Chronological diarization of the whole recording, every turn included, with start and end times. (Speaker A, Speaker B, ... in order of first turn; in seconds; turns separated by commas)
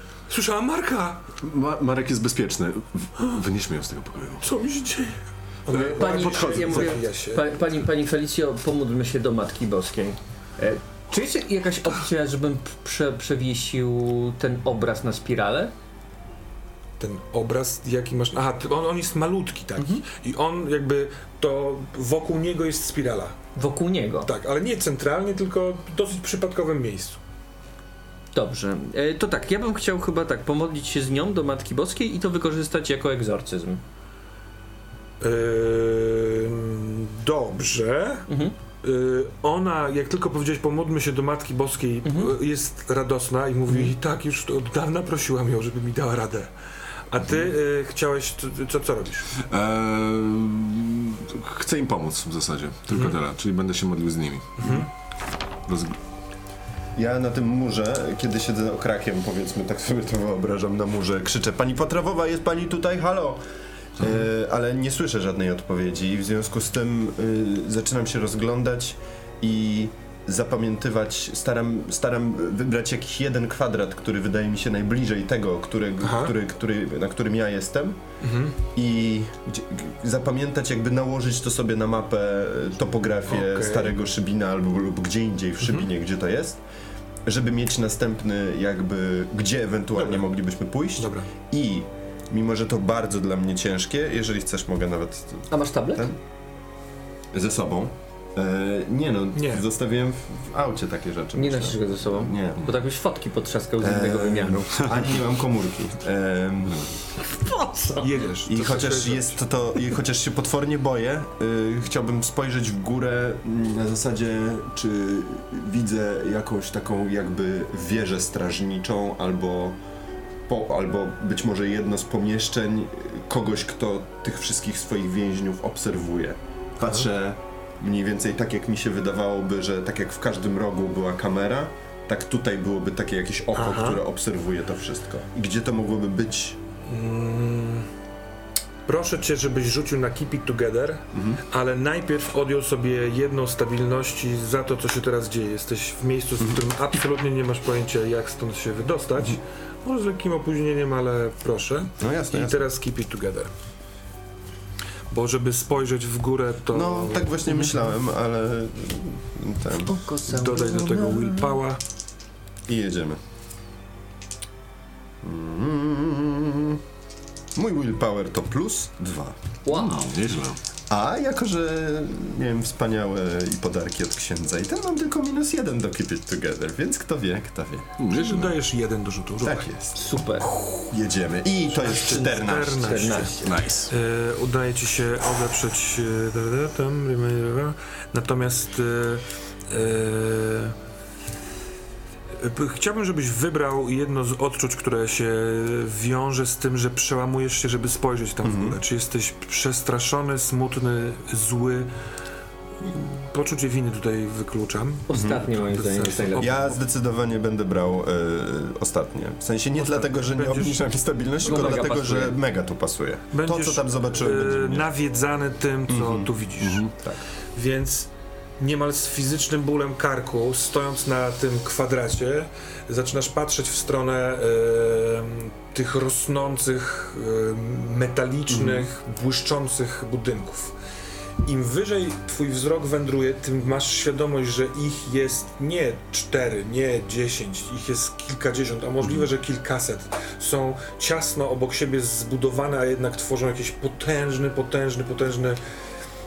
Speaker A: 0.3-1.2, Speaker B: 1.4-4.5, Speaker A: 4.4-7.5, Speaker C: 5.7-15.7, Speaker B: 5.8-7.0, Speaker A: 17.0-23.4, Speaker C: 19.8-20.0, Speaker C: 23.6-24.3, Speaker A: 24.2-27.2, Speaker C: 28.3-33.8, Speaker A: 35.2-38.3, Speaker C: 38.3-38.5, Speaker A: 38.8-46.5, Speaker C: 42.0-42.3, Speaker C: 43.7-43.9, Speaker A: 47.1-49.3, Speaker B: 49.4-54.9, Speaker A: 54.6-54.9, Speaker B: 55.7-56.0, Speaker D: 57.0-63.4, Speaker D: 64.0-78.0, Speaker B: 64.0-64.3, Speaker A: 76.0-76.3, Speaker A: 78.2-78.6, Speaker D: 78.7-86.6, Speaker A: 83.3-84.0, Speaker A: 85.6-85.9, Speaker D: 87.2-96.2, Speaker A: 90.0-90.2, Speaker A: 91.0-91.3, Speaker C: 95.5-96.2, Speaker D: 97.3-102.7, Speaker A: 99.3-99.7, Speaker C: 101.3-105.1, Speaker D: 103.8-107.0, Speaker C: 107.2-108.3, Speaker A: 108.0-109.4, Speaker D: 108.5-119.8, Speaker D: 120.5-136.6, Speaker A: 133.6-134.0, Speaker A: 136.9-137.9, Speaker A: 138.9-153.5, Speaker D: 141.1-141.4, Speaker D: 152.0-152.7, Speaker A: 155.1-157.8, Speaker D: 156.7-160.0, Speaker C: 159.8-161.4, Speaker A: 160.3-161.8, Speaker D: 162.7-163.2, Speaker D: 165.2-166.8, Speaker D: 167.6-169.6, Speaker C: 169.7-170.1, Speaker B: 169.7-170.6, Speaker D: 170.9-177.9, Speaker B: 178.0-178.6, Speaker A: 178.1-179.7, Speaker D: 179.4-180.0, Speaker C: 179.9-180.5, Speaker A: 180.4-180.9, Speaker D: 180.8-183.3, Speaker A: 181.7-190.8, Speaker C: 181.9-183.6, Speaker B: 183.4-183.9, Speaker A: 192.4-201.9, Speaker D: 198.4-198.8, Speaker A: 202.8-206.8, Speaker C: 205.1-206.5, Speaker D: 205.1-205.4, Speaker D: 206.3-214.9, Speaker A: 209.8-210.8, Speaker C: 211.4-212.4, Speaker A: 211.5-211.8, Speaker A: 213.3-216.9, Speaker D: 215.9-216.3, Speaker B: 216.6-216.9, Speaker A: 217.5-230.8, Speaker D: 228.5-228.9, Speaker A: 231.4-245.6, Speaker D: 239.0-239.3